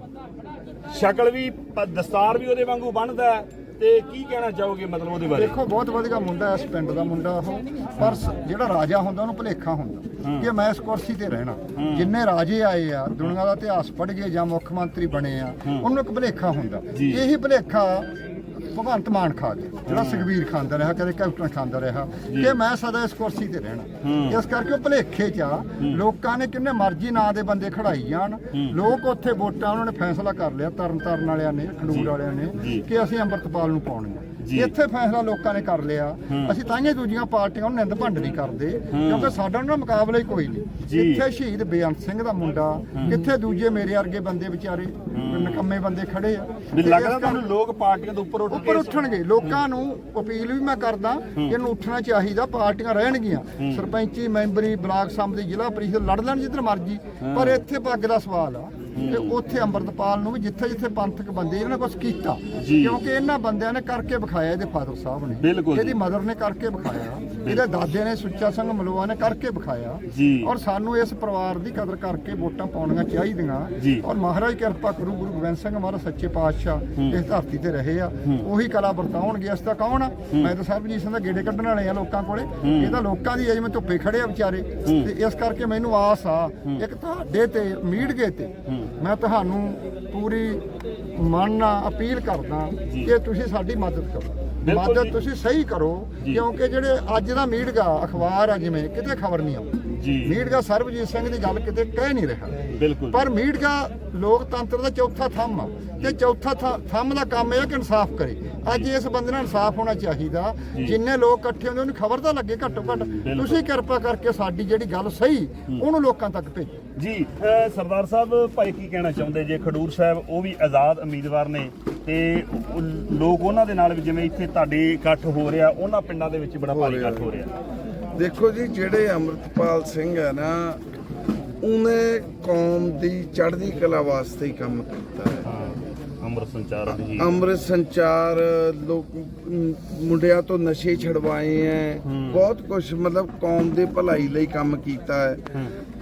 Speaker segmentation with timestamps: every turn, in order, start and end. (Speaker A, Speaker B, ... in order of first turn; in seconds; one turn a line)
Speaker A: 0.9-5.5
Speaker B: 5.3-18.1
Speaker A: 10.2-10.5
Speaker A: 11.8-12.1
Speaker A: 16.9-17.2
Speaker B: 18.7-47.4
Speaker A: 19.9-20.3
Speaker A: 22.3-22.6
Speaker A: 24.0-24.4
Speaker A: 31.9-32.8
Speaker A: 34.4-34.7
Speaker A: 38.9-39.3
Speaker A: 40.8-41.2
Speaker A: 45.1-45.6
Speaker A: 46.7-49.6
Speaker B: 48.5-90.6
Speaker A: 53.6-53.8
Speaker A: 57.2-57.6
Speaker A: 58.9-59.4
Speaker A: 62.6-63.0
Speaker A: 65.4-66.0
Speaker A: 67.4-67.6
Speaker A: 70.1-70.5
Speaker A: 82.6-83.0
Speaker A: 84.8-85.1
Speaker B: 91.1-116.7
Speaker A: 94.6-95.2
Speaker A: 100.0-100.4
Speaker A: 102.8-103.2
Speaker A: 112.8-113.5
Speaker A: 117.0-127.5
Speaker C: 126.7-127.3
Speaker C: 128.1-130.8
Speaker C: 131.6-135.5
Speaker A: 135.4-137.4
Speaker C: 136.9-145.4
Speaker A: 142.0-142.4